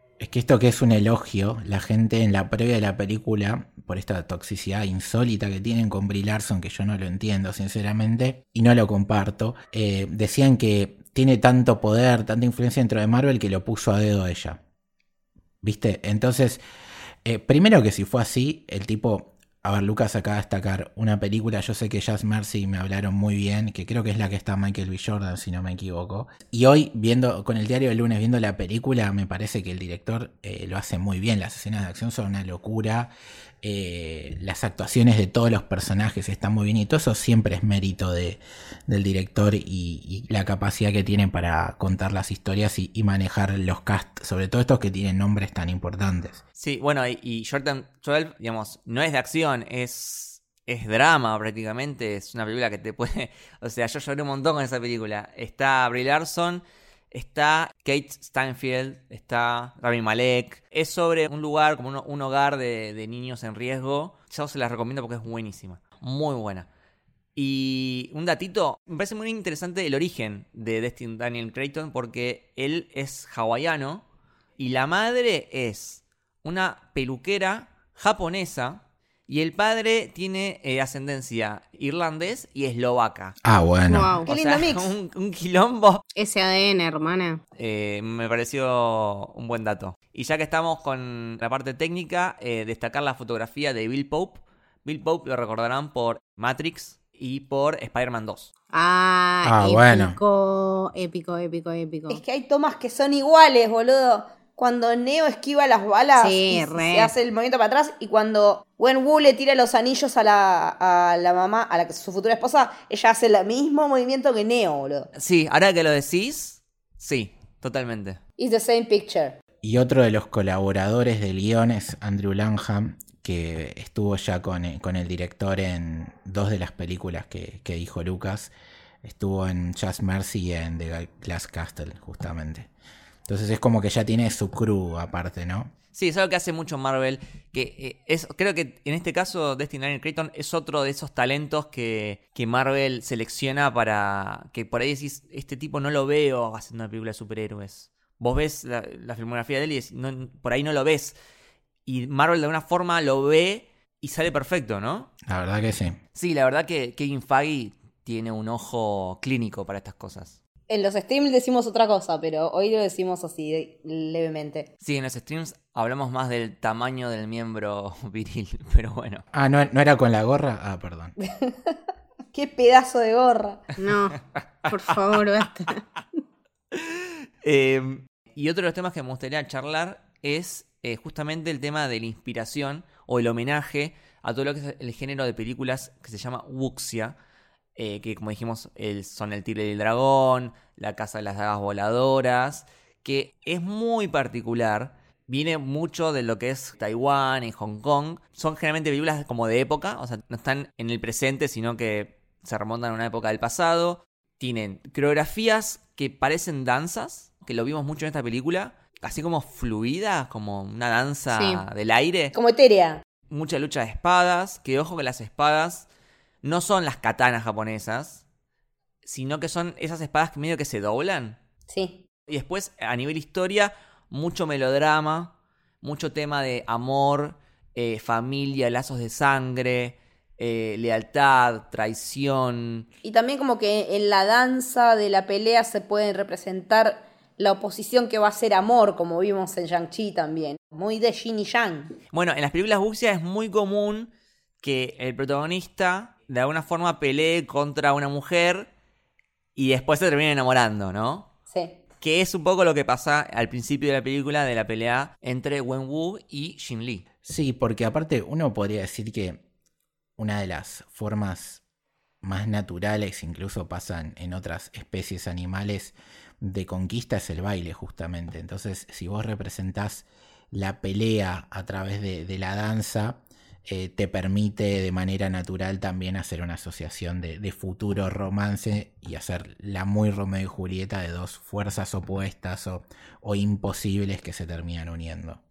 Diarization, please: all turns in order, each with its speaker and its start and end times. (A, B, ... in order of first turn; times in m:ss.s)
0:00.2-0:14.6 A
0:15.6-0:16.6 A
0:17.2-0:33.1 A
0:33.6-0:46.4 A
0:46.6-1:06.7 B
1:07.4-1:14.0 B
1:14.6-1:23.4 B
1:23.4-1:24.2 A
1:23.9-1:24.3 C
1:24.2-1:24.9 D
1:24.3-1:26.0 B
1:26.2-1:27.4 C
1:27.6-1:38.5 B
1:38.7-1:42.2 C
1:39.4-1:40.2 A
1:42.1-1:55.1 D
1:46.2-1:47.1 C
1:55.2-1:58.2 B
1:58.4-1:59.4 D
1:59.6-2:08.5 A
2:09.0-2:12.7 A
2:13.3-2:15.7 A
2:15.9-2:31.2 B
2:31.9-2:35.1 B
2:35.3-2:36.0 A
2:36.2-2:40.4 B
2:40.7-2:44.7 D
2:44.8-2:49.2 B
2:49.3-2:51.2 A
2:51.3-2:51.8 D
2:52.3-2:53.6 D
2:53.8-2:55.8 C
2:56.7-3:07.2 B
3:07.8-3:32.3 B
3:31.3-3:31.6 C
3:32.3-3:33.0 D
3:33.3-3:35.9 B
3:36.4-3:38.2 B
3:39.0-3:41.4 B
3:41.7-3:42.0 D
3:42.3-3:52.9 B
3:53.0-4:02.0 D
4:02.1-4:04.1 B
4:04.6-4:08.7 B
4:09.6-4:11.3 B
4:11.5-4:11.8 D
4:12.0-4:17.0 B
4:17.2-4:19.4 A
4:20.2-4:21.6 A
4:22.2-4:45.4 A